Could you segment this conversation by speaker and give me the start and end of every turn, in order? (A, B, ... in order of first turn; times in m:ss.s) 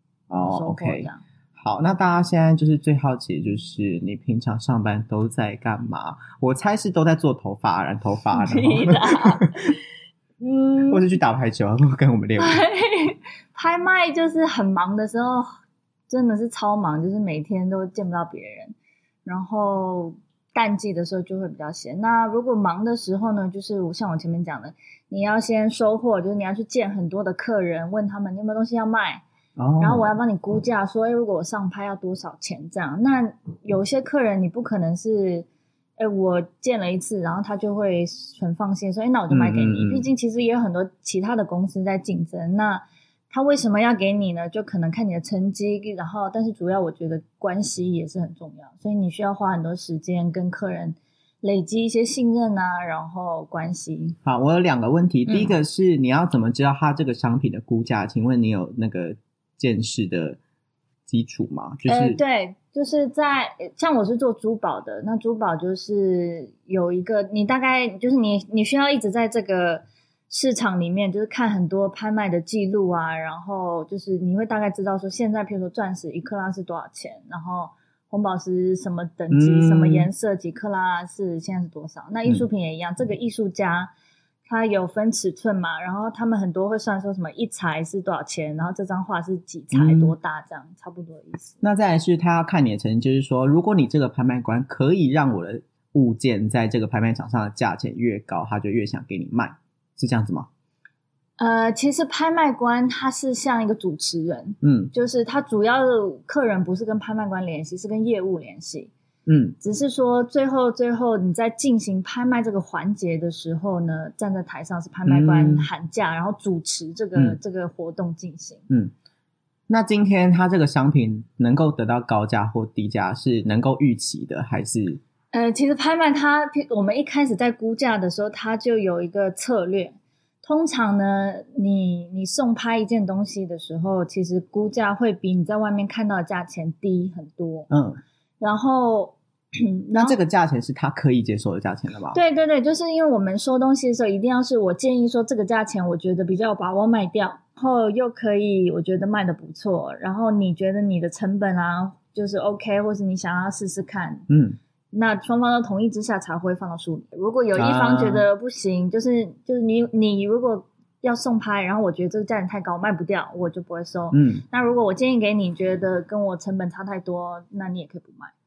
0:00.3-0:09.7 A
0:00.4-0:01.2 B
0:08.4-0:09.6 B
0:10.4-0:11.0 B
0:10.9-0:12.6 A
0:12.4-0:15.5 B
0:16.1-0:29.2 B
0:29.6-0:30.2 A
0:29.8-0:54.2 B
0:39.3-0:40.1 A
0:54.2-1:00.4 A
0:55.3-0:55.6 B
1:01.1-1:02.2 A
1:01.9-1:23.9 B
1:19.3-1:20.1 A
1:24.5-1:31.6 B
1:29.7-1:30.2 A
1:31.6-1:40.5 A
1:41.4-1:48.9 B
1:44.6-1:44.9 A
1:49.3-1:49.6 A
1:49.6-1:58.6 B
1:55.1-1:55.7 A
1:58.7-1:58.9 A
1:59.7-2:05.0 A
2:05.3-2:17.7 B
2:17.7-2:18.0 A
2:18.4-2:20.2 B
2:20.0-2:22.2 A
2:22.1-2:34.3 B
2:34.3-2:34.6 A
2:34.9-2:48.3 B
2:37.5-2:38.3 A
2:44.1-2:44.4 A